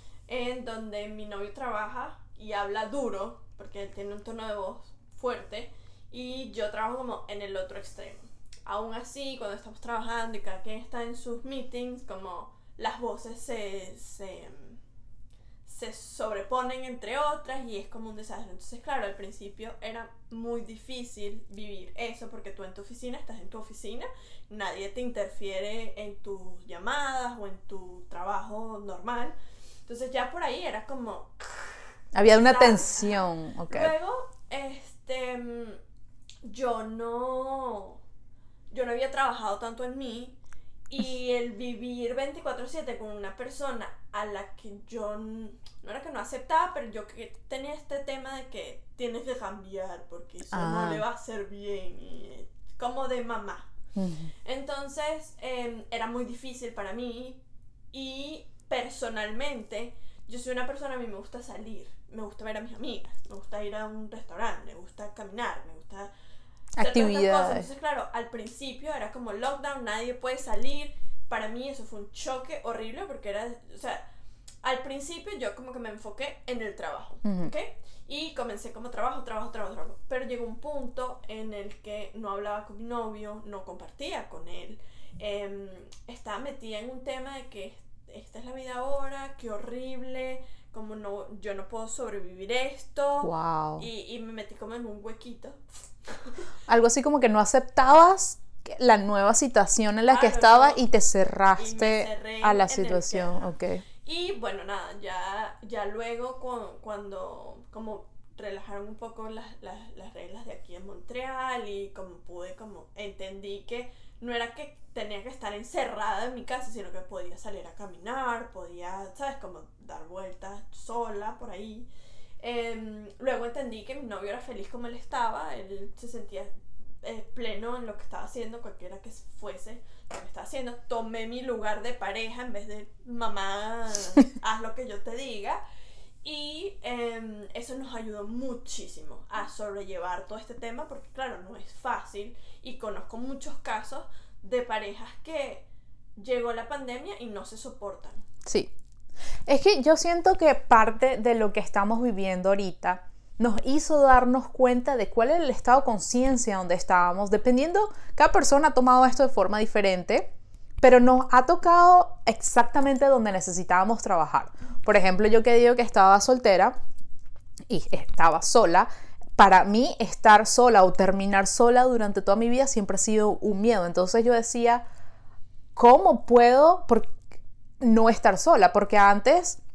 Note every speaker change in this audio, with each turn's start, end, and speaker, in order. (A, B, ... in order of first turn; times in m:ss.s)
0:00.3-0:14.8 A
0:15.7-0:29.4 A
0:29.9-0:35.8 A
0:32.1-0:33.9 B
0:36.4-0:38.0 A
0:38.7-0:40.4 A
0:40.9-0:53.7 A
0:50.5-0:51.0 B
0:53.9-0:54.3 B
0:54.4-0:57.4 A
0:57.9-1:06.1 A
1:06.8-1:07.7 B
1:06.8-1:14.1 A
1:14.6-1:36.4 A
1:17.2-1:17.5 B
1:33.2-1:33.9 B
1:36.7-1:43.8 B
1:40.1-1:40.8 A
1:41.6-2:01.9 A
2:02.4-2:15.6 A
2:16.2-2:25.6 A
2:26.2-2:28.2 A
2:28.4-2:28.7 B
2:29.5-2:40.3 B
2:40.8-2:46.8 B
2:47.7-2:54.8 B
2:55.8-2:57.2 B
2:57.8-2:59.6 B